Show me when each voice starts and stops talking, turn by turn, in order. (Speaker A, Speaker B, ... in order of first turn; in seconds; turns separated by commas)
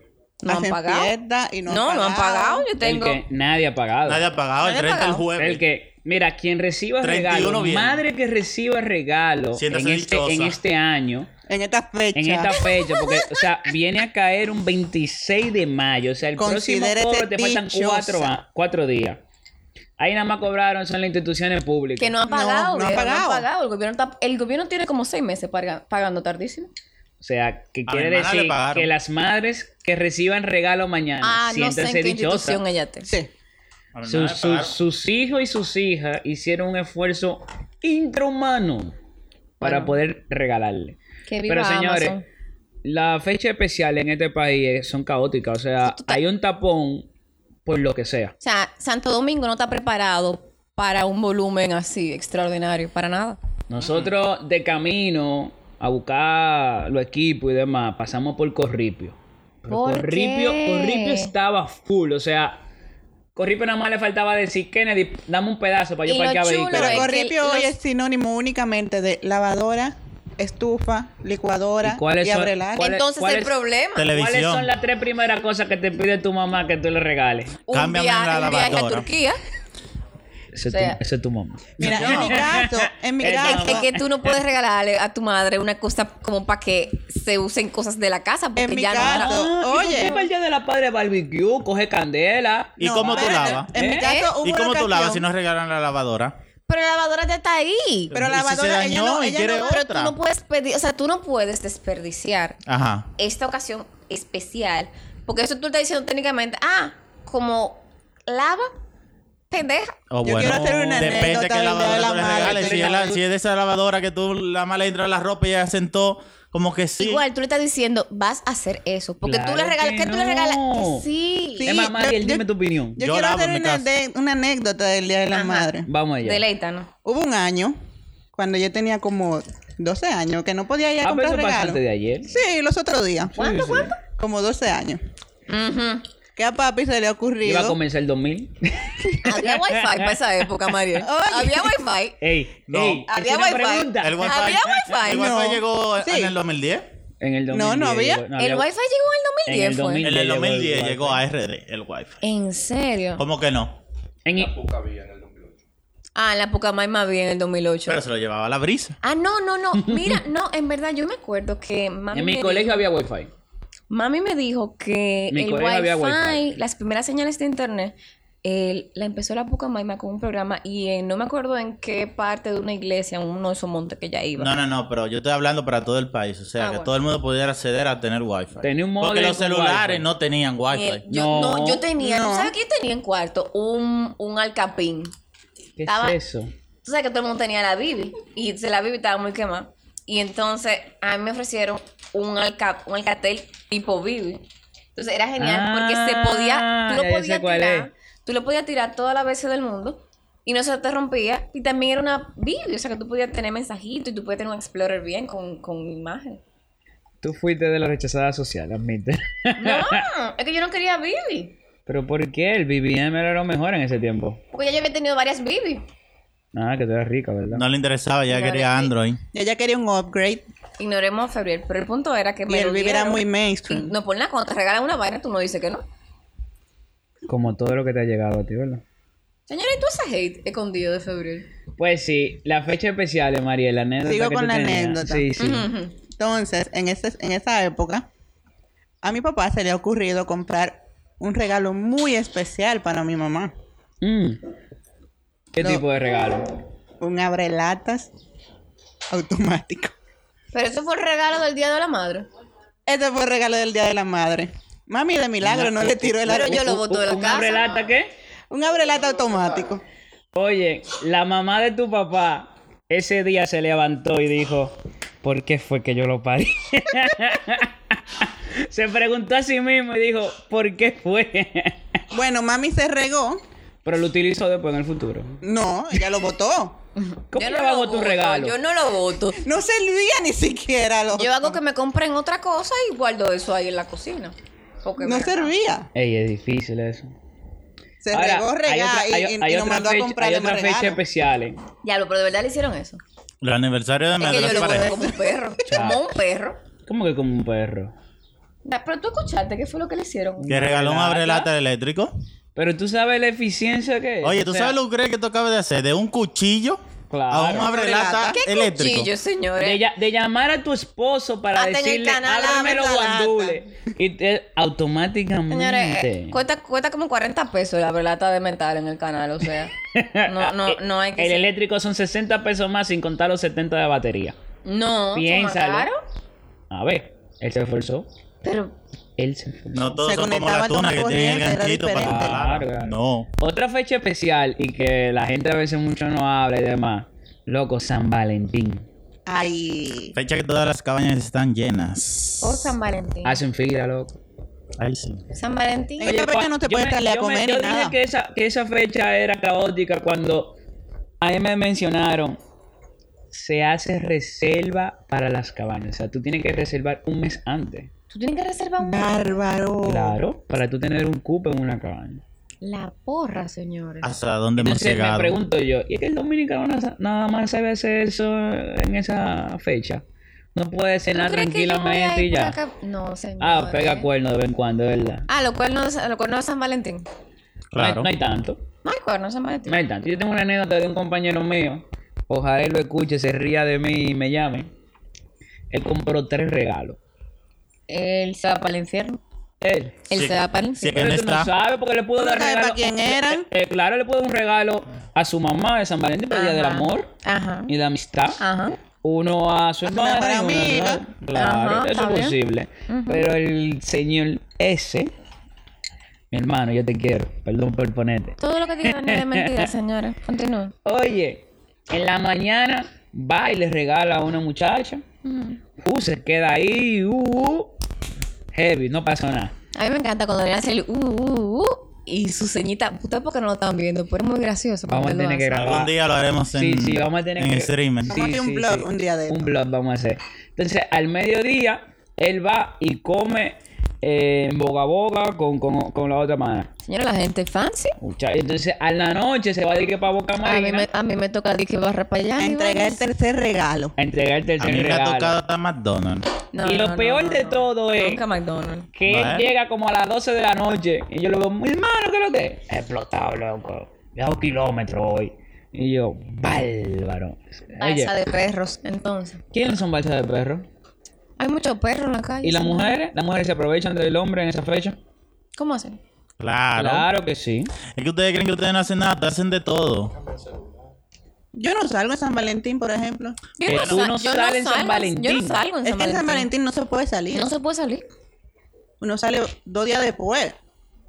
Speaker A: 0.4-1.1, Speaker B: 0.5-2.7, Speaker A: 1.7-3.2, Speaker C: 2.8-4.3, Speaker D: 4.1-5.6, Speaker A: 4.6-5.3, Speaker C: 5.4-11.3, Speaker D: 7.0-8.0, Speaker D: 9.6-10.6, Speaker B: 11.5-12.5, Speaker C: 12.2-19.2, Speaker A: 12.5-13.4, Speaker B: 16.4-18.3, Speaker C: 20.0-22.2, Speaker A: 22.0-26.7, Speaker B: 22.3-23.4, Speaker C: 27.2-32.6, Speaker D: 27.9-28.9, Speaker A: 31.2-33.1, Speaker D: 33.9-34.8, Speaker C: 34.0-38.9, Speaker C: 39.6-42.2, Speaker A: 39.6-40.0, Speaker A: 41.3-42.2, Speaker C: 42.8-47.1, Speaker A: 45.8-46.2, Speaker C: 47.7-48.3, Speaker A: 48.4-53.4, Speaker C: 53.7-62.6, Speaker A: 59.7-61.3, Speaker C: 63.4-67.1, Speaker A: 66.1-67.7, Speaker B: 66.7-73.0, Speaker C: 71.8-73.5, Speaker A: 72.8-74.1, Speaker D: 74.0-74.7, Speaker C: 74.1-77.6, Speaker A: 77.7-79.4, Speaker D: 77.7-79.1, Speaker C: 80.5-84.1, Speaker A: 80.7-81.0, Speaker D: 81.8-82.5, Speaker B: 81.8-83.9, Speaker A: 83.2-90.3, Speaker B: 88.6-90.2, Speaker C: 88.9-94.1, Speaker D: 92.8-93.7, Speaker B: 92.8-95.3, Speaker A: 93.8-94.3, Speaker D: 94.4-96.3, Speaker A: 96.7-98.1, Speaker D: 98.1-100.1, Speaker B: 98.1-99.8, Speaker A: 99.6-102.6, Speaker D: 102.7-103.1, Speaker A: 103.2-108.7, Speaker A: 109.5-110.0, Speaker D: 110.1-117.2, Speaker B: 110.2-113.2, Speaker C: 112.4-112.8, Speaker A: 117.0-121.8, Speaker C: 119.2-121.1, Speaker B: 121.6-125.9, Speaker C: 121.7-123.0, Speaker D: 123.0-123.9, Speaker A: 125.3-125.7, Speaker C: 125.9-126.5, Speaker A: 126.2-126.9, Speaker B: 127.0-127.8, Speaker B: 128.3-133.4, Speaker C: 131.0-132.3, Speaker C: 133.3-133.9, Speaker A: 133.3-134.0, Speaker B: 134.0-135.0, Speaker A: 135.5-136.0, Speaker B: 136.4-137.8, Speaker C: 137.4-140.2, Speaker A: 139.2-142.2, Speaker B: 141.0-141.8, Speaker C: 142.2-144.8, Speaker D: 142.7-143.1, Speaker A: 143.1-145.5, Speaker D: 144.0-146.9, Speaker B: 145.1-146.4, Speaker C: 147.2-148.7, Speaker B: 147.5-148.2, Speaker A: 148.4-150.1, Speaker C: 149.5-151.2, Speaker D: 150.0-152.2, Speaker A: 152.2-153.2, Speaker D: 153.2-153.8, Speaker C: 154.2-154.7, Speaker A: 156.2-158.0, Speaker D: 157.9-159.0, Speaker A: 159.0-162.9, Speaker C: 159.8-160.2, Speaker C: 162.1-163.3, Speaker A: 163.9-174.5, Speaker C: 165.3-166.4, Speaker D: 174.4-181.0, Speaker A: 176.6-176.9, Speaker C: 178.6-180.1, Speaker A: 180.7-185.1, Speaker C: 181.1-181.8, Speaker B: 182.0-182.5, Speaker C: 185.8-186.5, Speaker A: 185.9-186.2, Speaker A: 186.8-194.4, Speaker A: 194.9-206.4, Speaker C: 195.4-197.9, Speaker C: 207.2-210.1, Speaker A: 209.6-211.6, Speaker C: 211.9-214.4, Speaker A: 214.5-215.8, Speaker C: 216.5-217.7, Speaker D: 217.5-219.2, Speaker A: 218.3-218.9, Speaker B: 219.3-220.4, Speaker A: 220.8-225.8, Speaker B: 222.5-223.9, Speaker C: 227.3-228.8, Speaker A: 229.5-231.5, Speaker C: 231.8-235.7, Speaker B: 234.0-235.3, Speaker A: 235.4-236.0, Speaker B: 236.2-238.1, Speaker B: 239.0-243.5, Speaker C: 244.0-244.4, Speaker C: 245.5-246.6, Speaker B: 247.0-248.1, Speaker B: 249.1-249.9, Speaker A: 250.5-252.3, Speaker B: 252.9-256.8, Speaker C: 255.4-258.1, Speaker A: 256.2-257.9, Speaker B: 258.5-259.8, Speaker C: 260.3-272.0, Speaker B: 272.1-273.4, Speaker C: 273.9-275.4, Speaker B: 275.4-276.8, Speaker A: 277.0-279.4, Speaker C: 277.3-278.6, Speaker B: 279.4-281.6, Speaker A: 281.1-285.5, Speaker B: 285.0-285.9, Speaker C: 285.9-287.1, Speaker B: 288.0-291.0, Speaker C: 288.1-291.6, Speaker A: 291.8-293.0, Speaker D: 293.4-295.1, Speaker B: 294.2-295.4, Speaker A: 294.2-296.6, Speaker C: 295.7-296.1, Speaker C: 296.9-297.9, Speaker A: 298.6-300.6, Speaker C: 300.4-301.5, Speaker D: 300.5-302.1, Speaker C: 302.6-304.8, Speaker D: 304.2-309.1, Speaker C: 307.1-307.7, Speaker B: 307.6-308.4, Speaker A: 308.3-309.8, Speaker C: 309.6-316.4, Speaker A: 311.6-312.9, Speaker B: 312.3-313.6, Speaker A: 315.5-319.7, Speaker C: 319.9-324.4, Speaker A: 320.2-321.4, Speaker A: 324.6-326.0, Speaker C: 325.1-325.9, Speaker C: 326.7-328.1, Speaker A: 328.4-328.8, Speaker C: 329.2-330.0, Speaker D: 329.7-333.3, Speaker B: 330.0-332.4, Speaker C: 331.9-338.9, Speaker B: 339.3-340.1, Speaker D: 340.2-342.7, Speaker A: 342.4-343.4, Speaker C: 343.2-344.2, Speaker D: 344.8-345.2, Speaker A: 345.3-346.2, Speaker B: 346.0-348.0, Speaker C: 346.0-350.6, Speaker C: 351.2-352.4, Speaker C: 353.3-357.9, Speaker A: 358.1-359.4, Speaker B: 358.8-360.2, Speaker C: 359.9-362.2, Speaker A: 362.6-364.1, Speaker D: 364.0-365.4, Speaker C: 364.6-370.0, Speaker C: 370.6-372.6, Speaker A: 371.1-374.1, Speaker C: 373.4-375.3, Speaker A: 375.3-377.1, Speaker D: 377.7-378.1, Speaker C: 377.8-378.6, Speaker A: 378.8-379.8, Speaker C: 379.7-384.7, Speaker C: 385.7-387.0, Speaker A: 387.9-389.2, Speaker C: 389.6-390.0, Speaker A: 390.1-391.1, Speaker D: 390.1-391.5, Speaker C: 391.0-397.1, Speaker B: 392.2-393.5, Speaker A: 396.3-397.7, Speaker C: 397.7-398.4, Speaker A: 398.4-398.8, Speaker C: 399.0-405.1, Speaker B: 399.9-401.1, Speaker A: 401.4-402.4, Speaker A: 402.9-403.3, Speaker C: 406.3-409.7, Speaker A: 408.4-410.7, Speaker C: 410.9-415.0, Speaker A: 415.2-415.6, Speaker C: 415.8-417.7, Speaker C: 418.5-419.5, Speaker A: 419.8-425.6, Speaker C: 424.9-425.9, Speaker D: 425.5-428.1, Speaker C: 426.5-436.7, Speaker B: 428.1-429.5, Speaker A: 436.9-437.9, Speaker C: 438.0-440.9, Speaker A: 440.4-443.0, Speaker B: 442.4-443.9, Speaker C: 444.0-445.4, Speaker D: 444.6-446.3, Speaker A: 446.5-448.9, Speaker C: 446.6-448.2, Speaker C: 448.9-458.1, Speaker D: 449.1-449.5, Speaker A: 457.8-459.4, Speaker C: 459.5-460.7, Speaker A: 461.4-463.0, Speaker C: 462.4-465.0, Speaker A: 465.6-466.0, Speaker D: 466.4-467.1, Speaker C: 466.8-467.7, Speaker D: 467.9-470.1, Speaker B: 471.6-473.4, Speaker A: 473.6-476.5, Speaker C: 473.7-475.6, Speaker B: 475.9-477.5, Speaker A: 477.3-478.1, Speaker B: 479.0-480.6